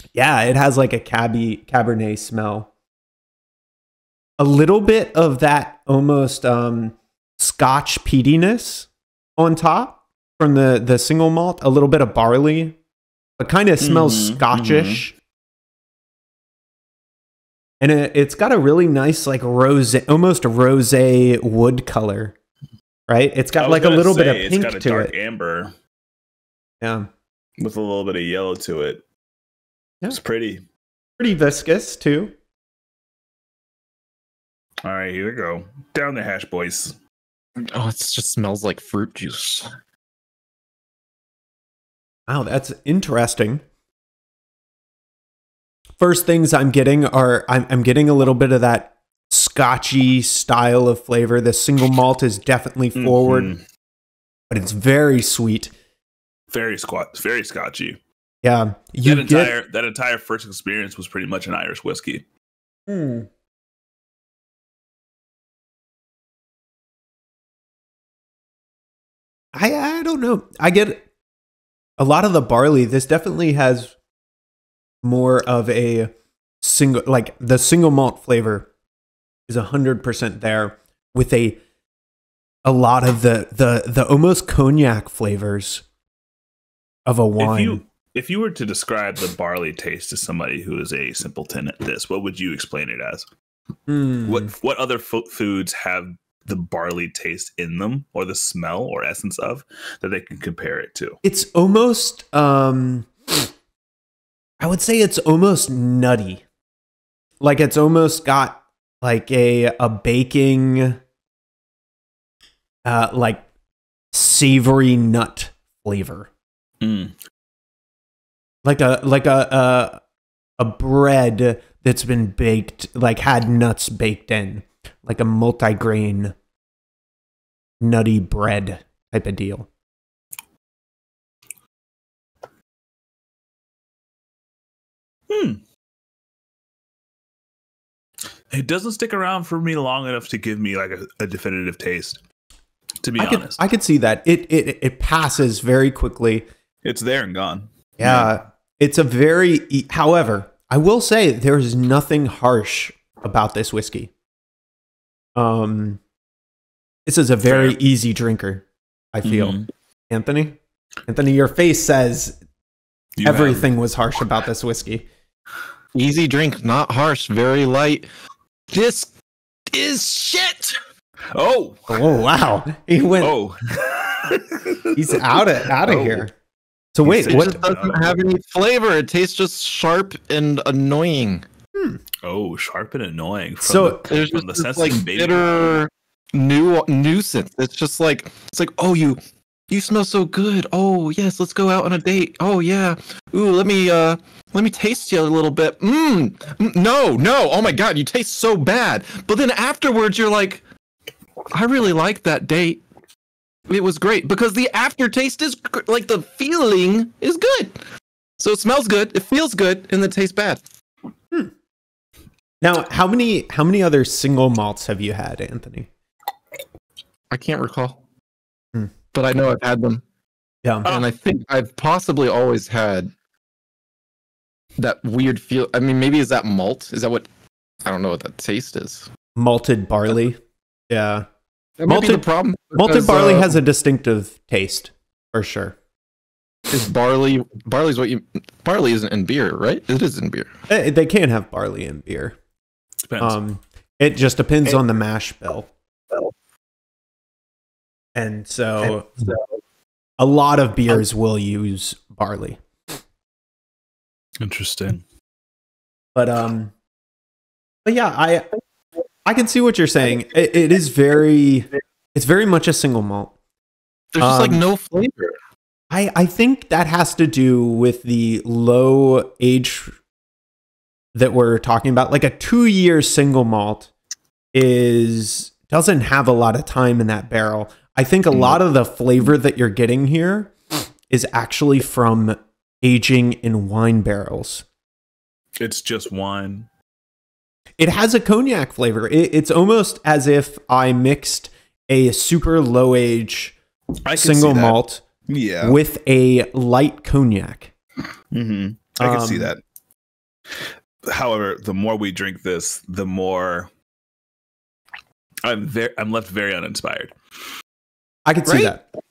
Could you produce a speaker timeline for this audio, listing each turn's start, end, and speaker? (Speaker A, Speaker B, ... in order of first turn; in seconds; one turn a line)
Speaker A: 0.1-2.7
Speaker A: 4.4-8.9
Speaker A: 9.4-12.8
Speaker A: 13.4-15.1
Speaker B: 13.8-15.0
Speaker A: 17.8-22.3
Speaker A: 23.1-25.1
Speaker B: 23.6-25.7
Speaker A: 26.8-27.1
Speaker B: 27.6-29.0
Speaker B: 30.1-30.6
Speaker A: 31.2-32.3
Speaker B: 34.8-37.0
Speaker C: 37.6-39.7
Speaker A: 42.3-43.6
Speaker A: 46.0-53.5
Speaker B: 53.0-53.6
Speaker A: 54.5-55.7
Speaker B: 56.5-58.0
Speaker A: 58.4-59.5
Speaker B: 59.0-62.2
Speaker A: 62.9-63.3
Speaker A: 69.5-71.0
Speaker A: 72.0-73.9
Speaker A: 75.0-76.1
Speaker A: 76.6-78.7
Speaker A: 79.5-81.6
Speaker A: 82.6-85.8
Speaker A: 87.0-87.8
Speaker B: 87.4-93.3
Speaker A: 93.9-94.5
Speaker B: 94.2-101.2
Speaker A: 101.2-103.5
Speaker A: 104.6-106.4
Speaker A: 107.4-111.0
Speaker A: 112.8-113.4
Speaker A: 114.1-116.3
Speaker B: 116.8-117.1
Speaker A: 118.6-120.0
Speaker A: 120.6-126.3
Speaker A: 127.8-129.7
Speaker B: 135.3-135.6
Speaker B: 138.5-142.2
Speaker B: 143.0-143.6
Speaker A: 143.2-146.4
Speaker B: 146.8-148.3
Speaker A: 148.0-154.1
Speaker A: 155.3-156.0
Speaker A: 157.1-159.6
Speaker B: 157.4-157.8
Speaker B: 159.2-159.7
Speaker A: 160.1-162.3
Speaker B: 163.2-163.7
Speaker A: 163.2-165.1
Speaker C: 165.9-168.1
Speaker C: 168.7-169.1
Speaker C: 169.7-170.7
Speaker B: 171.3-172.0
Speaker A: 171.9-173.3
Speaker B: 173.2-176.2
Speaker A: 174.9-176.3
Speaker A: 176.9-177.6
Speaker B: 177.1-178.2
Speaker C: 177.1-181.4
Speaker B: 182.2-185.8
Speaker A: 183.6-184.0
Speaker C: 184.1-189.2
Speaker C: 189.7-200.6
Speaker C: 201.5-202.8
Speaker C: 203.7-207.8
Speaker C: 208.4-210.6
Speaker A: 212.6-215.9
Speaker C: 217.3-218.0
Speaker C: 219.1-220.0
Speaker C: 220.8-223.1
Speaker C: 224.8-227.3
Speaker C: 227.8-229.1
Speaker A: 229.3-230.4
Speaker A: 230.9-231.2
Speaker C: 231.8-233.6
Speaker A: 231.9-232.2
Speaker A: 232.7-235.7
Speaker C: 236.7-240.5
Speaker A: 240.7-242.3
Speaker B: 243.1-243.3
Speaker A: 243.2-245.7
Speaker A: 248.2-249.2
Speaker A: 250.2-252.6
Speaker B: 254.4-255.0
Speaker A: 256.1-256.7
Speaker A: 257.9-258.4
Speaker A: 259.2-263.3
Speaker C: 264.1-265.4
Speaker A: 264.2-264.6
Speaker A: 265.9-269.9
Speaker A: 271.1-273.9
Speaker A: 274.5-280.5
Speaker A: 281.1-284.6
Speaker B: 285.6-286.7
Speaker A: 287.8-293.6
Speaker B: 294.1-295.8
Speaker A: 294.1-295.0
Speaker A: 295.6-297.7
Speaker B: 298.3-299.6
Speaker A: 299.0-299.5
Speaker B: 300.6-303.7
Speaker B: 305.4-307.1
Speaker A: 308.3-308.8